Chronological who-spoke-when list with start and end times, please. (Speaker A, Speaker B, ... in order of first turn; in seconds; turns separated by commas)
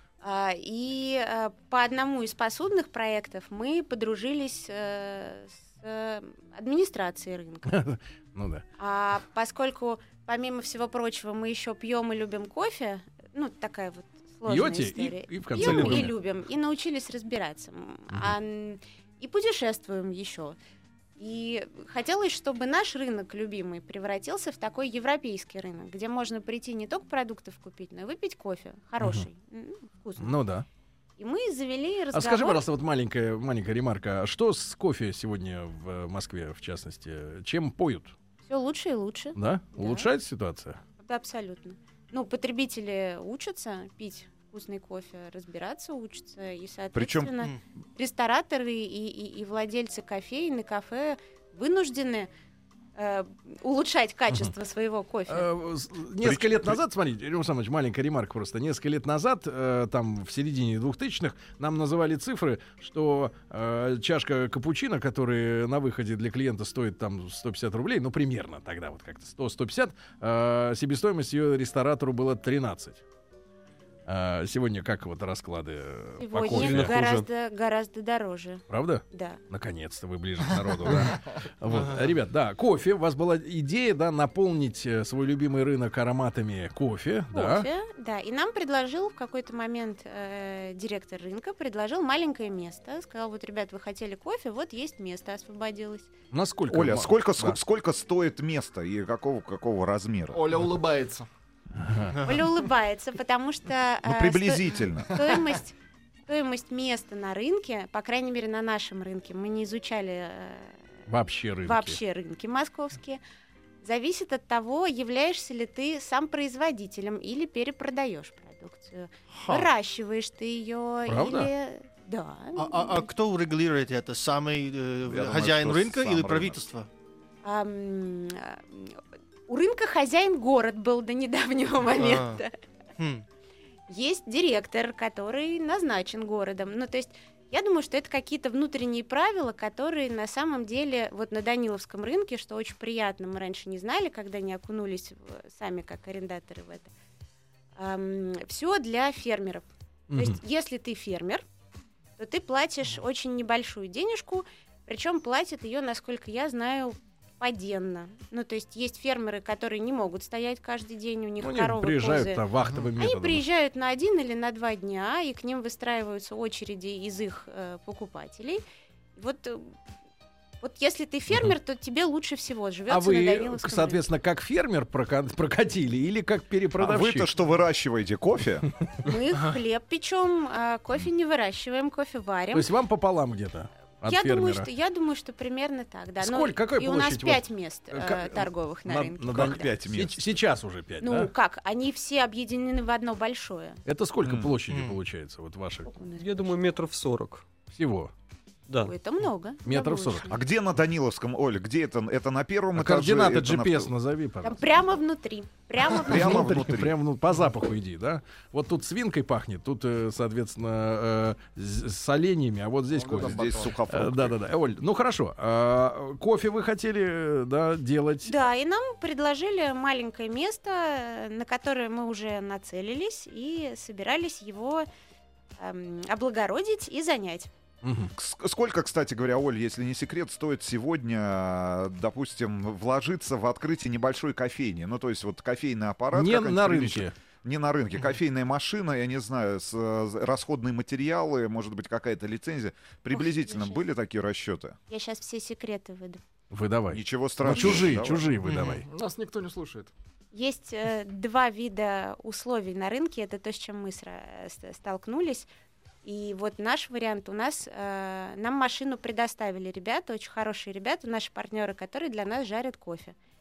Speaker A: 0.2-7.8, Speaker B: 7.7-8.6, Speaker A: 8.8-20.6, Speaker B: 14.4-16.1, Speaker C: 15.6-16.1, Speaker A: 21.2-30.3, Speaker B: 29.0-29.2, Speaker B: 30.2-30.6, Speaker A: 31.2-32.6, Speaker B: 32.1-38.1, Speaker A: 38.5-40.1, Speaker B: 39.4-40.8, Speaker A: 41.0-52.3, Speaker D: 46.9-47.3, Speaker A: 53.0-55.5, Speaker B: 55.3-73.0, Speaker D: 56.2-56.8, Speaker B: 74.1-77.0, Speaker A: 76.2-79.4, Speaker C: 76.5-77.2, Speaker B: 78.7-87.7, Speaker E: 81.7-82.1, Speaker A: 87.3-96.1, Speaker B: 96.3-97.6, Speaker D: 96.7-100.4, Speaker F: 100.3-101.2, Speaker B: 101.8-102.2, Speaker A: 102.2-105.8, Speaker D: 104.0-105.2, Speaker A: 106.3-110.8, Speaker B: 111.1-112.0, Speaker A: 111.6-113.2, Speaker A: 113.8-123.1, Speaker E: 119.3-119.7, Speaker B: 121.1-121.5, Speaker E: 122.5-126.9, Speaker D: 125.0-126.6, Speaker A: 127.4-132.5, Speaker E: 131.9-132.4, Speaker E: 133.0-133.2, Speaker A: 133.9-146.9, Speaker A: 147.8-151.4, Speaker B: 150.1-150.4, Speaker A: 152.2-162.4, Speaker B: 161.4-163.4, Speaker A: 163.0-168.6, Speaker A: 169.2-169.8, Speaker A: 170.6-174.0, Speaker B: 172.9-177.3, Speaker D: 176.8-178.7, Speaker A: 179.0-182.7, Speaker B: 182.5-184.7, Speaker A: 184.0-189.7, Speaker B: 186.2-191.3, Speaker D: 189.3-190.3, Speaker A: 191.0-193.8, Speaker B: 193.8-195.9, Speaker D: 194.2-194.5, Speaker E: 194.7-195.0, Speaker A: 195.8-196.5, Speaker C: 196.2-197.4, Speaker B: 197.7-198.1, Speaker A: 198.8-200.3, Speaker B: 199.6-200.3, Speaker D: 200.3-203.9, Speaker B: 202.8-204.6, Speaker A: 204.4-206.5, Speaker D: 206.0-207.0, Speaker B: 206.0-218.3, Speaker F: 212.9-213.8, Speaker D: 213.1-214.4, Speaker A: 218.2-224.8, Speaker A: 225.6-227.5, Speaker B: 227.8-228.1, Speaker D: 228.2-244.8, Speaker B: 236.1-237.1, Speaker A: 243.1-243.8, Speaker A: 244.9-246.2, Speaker B: 246.5-248.8, Speaker D: 246.9-248.3, Speaker F: 247.7-247.9, Speaker E: 248.4-248.8, Speaker F: 248.5-249.9, Speaker A: 250.3-255.5, Speaker A: 256.0-263.1